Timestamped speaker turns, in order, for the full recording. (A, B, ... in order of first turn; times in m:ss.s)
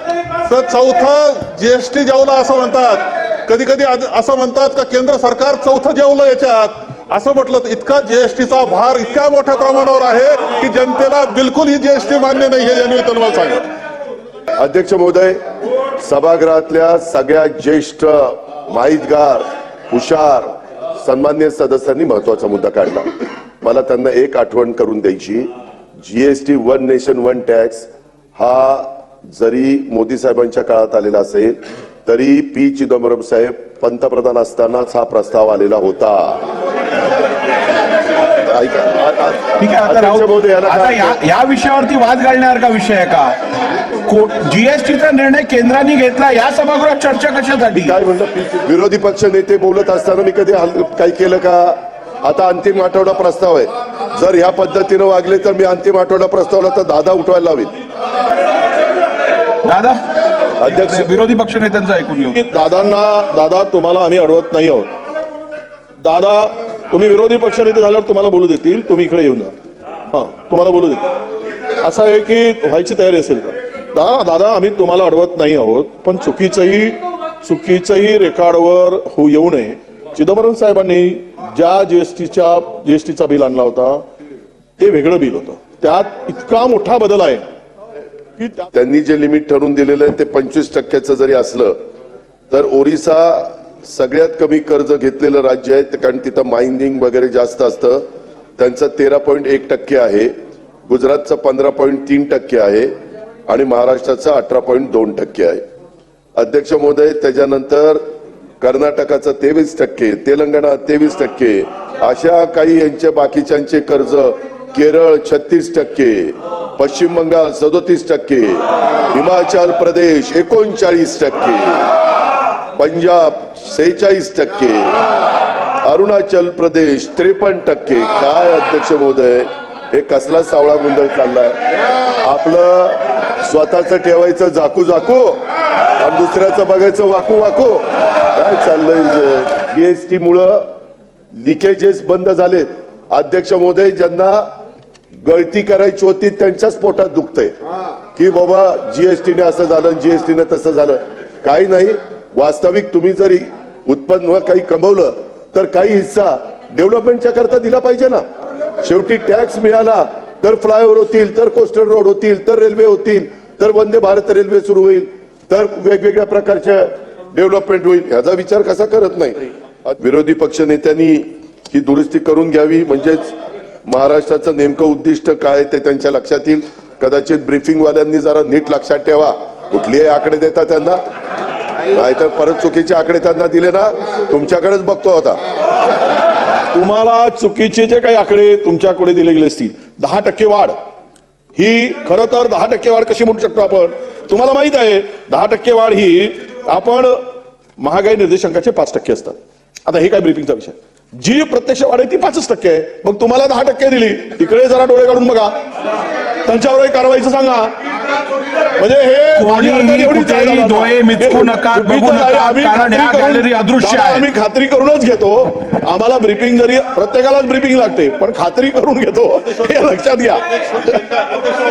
0:00.4-0:13.6 A
0:14.6-0:15.4 B
0:16.0-0:23.1 B
0:23.6-0:36.4 B
0:38.4-0:41.2 B
0:39.6-0:43.4 C
0:44.0-0:47.9 C
0:47.7-0:57.7 B
0:59.6-1:00.0 C
1:00.6-1:01.1 B
1:00.6-1:02.4 C
1:02.3-1:04.9 D
1:06.0-1:09.5 D
1:10.1-1:11.0 D
1:11.8-1:24.0 D
1:24.8-1:27.4 D
1:28.4-1:28.7 D
1:28.7-1:31.8 B
1:32.5-1:38.0 B
1:38.6-1:40.3 B
1:40.8-1:42.9 B
1:43.5-1:45.6 B
1:46.4-1:48.0 B
1:48.6-2:01.8 B
2:02.8-2:04.9 B
2:05.8-2:11.6 B
2:12.2-2:15.4 B
2:16.0-2:20.7 B
2:21.3-2:24.5 B
2:25.2-2:27.5 B
2:28.1-2:38.2 B
2:38.8-2:53.3 B
2:53.9-3:01.0 B
3:01.9-3:05.4 B
3:06.7-3:10.8 D
3:11.6-3:17.2 D
3:17.8-3:25.5 D
3:26.4-3:27.7 D
3:28.8-3:41.1 D
3:29.4-3:34.3 C